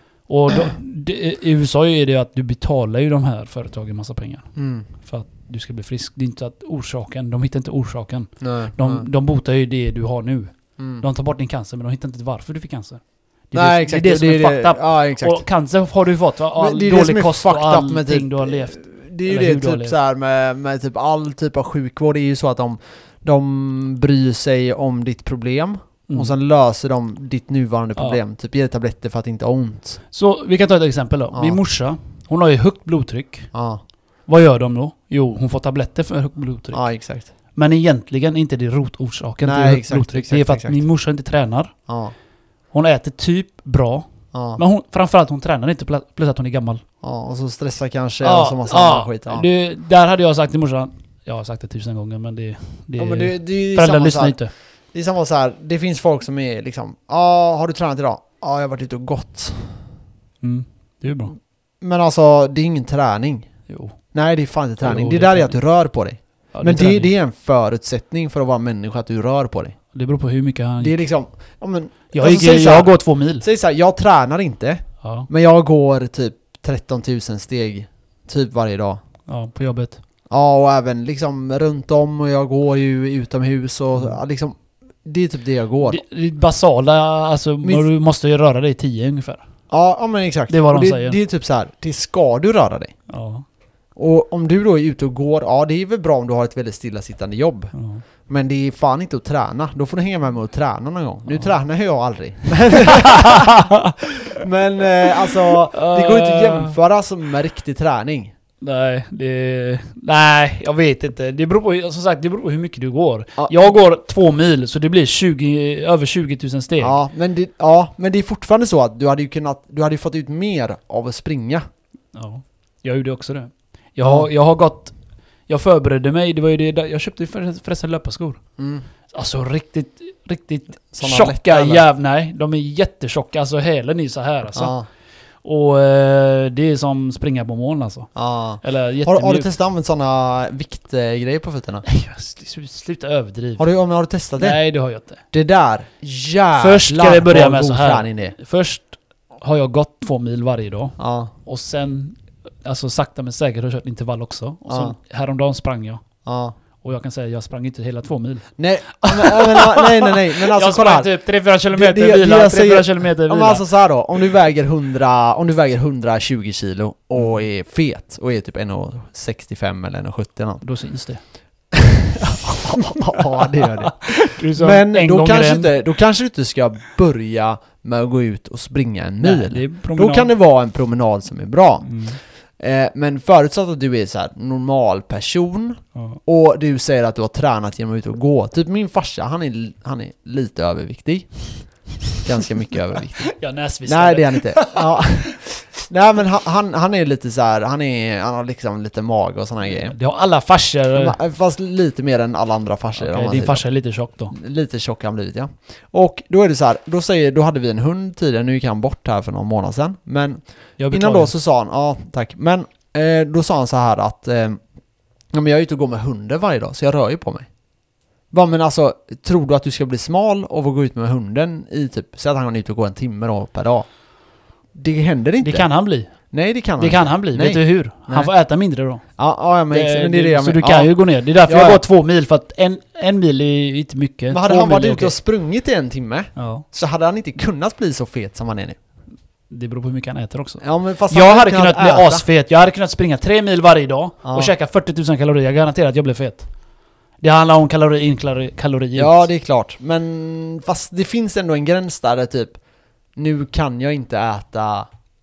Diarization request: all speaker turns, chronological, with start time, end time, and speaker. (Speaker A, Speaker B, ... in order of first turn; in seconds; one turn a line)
Speaker A: 0.2-4.5
Speaker B: 4.5-4.9
Speaker A: 5.0-19.9
Speaker B: 8.4-9.1
Speaker B: 10.8-11.0
Speaker B: 13.5-15.4
Speaker B: 16.6-30.0
Speaker A: 30.1-33.5
Speaker B: 31.3-31.6
Speaker B: 33.5-33.8
Speaker A: 34.3-36.8
Speaker B: 36.7-37.3
Speaker A: 37.5-41.7
Speaker B: 39.4-40.8
Speaker B: 41.9-42.1
Speaker A: 42.7-46.8
Speaker B: 44.3-44.6
Speaker B: 47.0-49.5
Speaker A: 48.2-54.5
Speaker B: 53.0-54.4
Speaker B: 54.9-59.8
Speaker A: 60.4-61.3
Speaker B: 61.8-63.5
Speaker A: 63.7-64.0
Speaker B: 64.1-69.8
Speaker A: 64.8-65.6
Speaker A: 66.5-67.1
Speaker A: 69.9-71.0
Speaker B: 70.8-79.0
Speaker A: 72.1-73.4
Speaker A: 75.0-75.3
Speaker A: 79.3-80.0
Speaker B: 80.3-86.0
Speaker A: 85.8-89.4
Speaker B: 89.7-92.9
Speaker A: 90.5-91.2
Speaker A: 93.1-93.4
Speaker B: 94.0-97.7
Speaker A: 97.7-98.0
Speaker B: 98.3-103.7
Speaker A: 102.8-103.9
Speaker B: 104.2-108.3
Speaker A: 105.2-106.8
Speaker A: 108.6-117.0
Speaker B: 116.8-121.6
Speaker A: 122.1-124.9
Speaker B: 124.0-124.3
Speaker A: 125.5-128.4
Speaker B: 128.6-128.8
Speaker A: 129.1-134.7
Speaker B: 130.9-131.8
Speaker B: 134.5-134.8
Speaker A: 135.4-139.5
Speaker B: 138.1-141.8
Speaker A: 141.8-143.6
Speaker B: 143.6-144.6
Speaker A: 144.4-145.2
Speaker B: 145.3-148.3
Speaker A: 146.6-156.0
Speaker B: 151.0-151.3
Speaker B: 154.7-154.9
Speaker B: 156.2-156.5
Speaker A: 156.8-163.7
Speaker B: 158.6-161.1
Speaker B: 161.7-170.6
Speaker A: 170.6-171.2
Speaker B: 171.7-191.7
Speaker A: 172.5-175.7
Speaker A: 179.2-180.3
Speaker A: 181.8-182.2
Speaker A: 185.9-186.2
Speaker B: 192.2-199.9
Speaker A: 193.2-195.3
Speaker A: 199.6-201.2
Speaker B: 200.9-203.6
Speaker A: 203.0-204.3
Speaker B: 204.3-214.6
Speaker A: 210.8-211.3
Speaker B: 215.3-217.5
Speaker B: 218.3-223.8
Speaker B: 224.7-225.7
Speaker A: 225.4-226.1
Speaker B: 226.3-228.3
Speaker A: 226.8-229.0
Speaker B: 229.2-230.9
Speaker A: 229.7-235.1
Speaker B: 231.4-231.8
Speaker B: 234.3-238.8
Speaker A: 236.3-236.6
Speaker A: 239.5-246.5
Speaker B: 240.6-242.2
Speaker B: 244.2-244.5
Speaker A: 247.2-249.3
Speaker B: 248.9-252.6
Speaker B: 253.2-254.9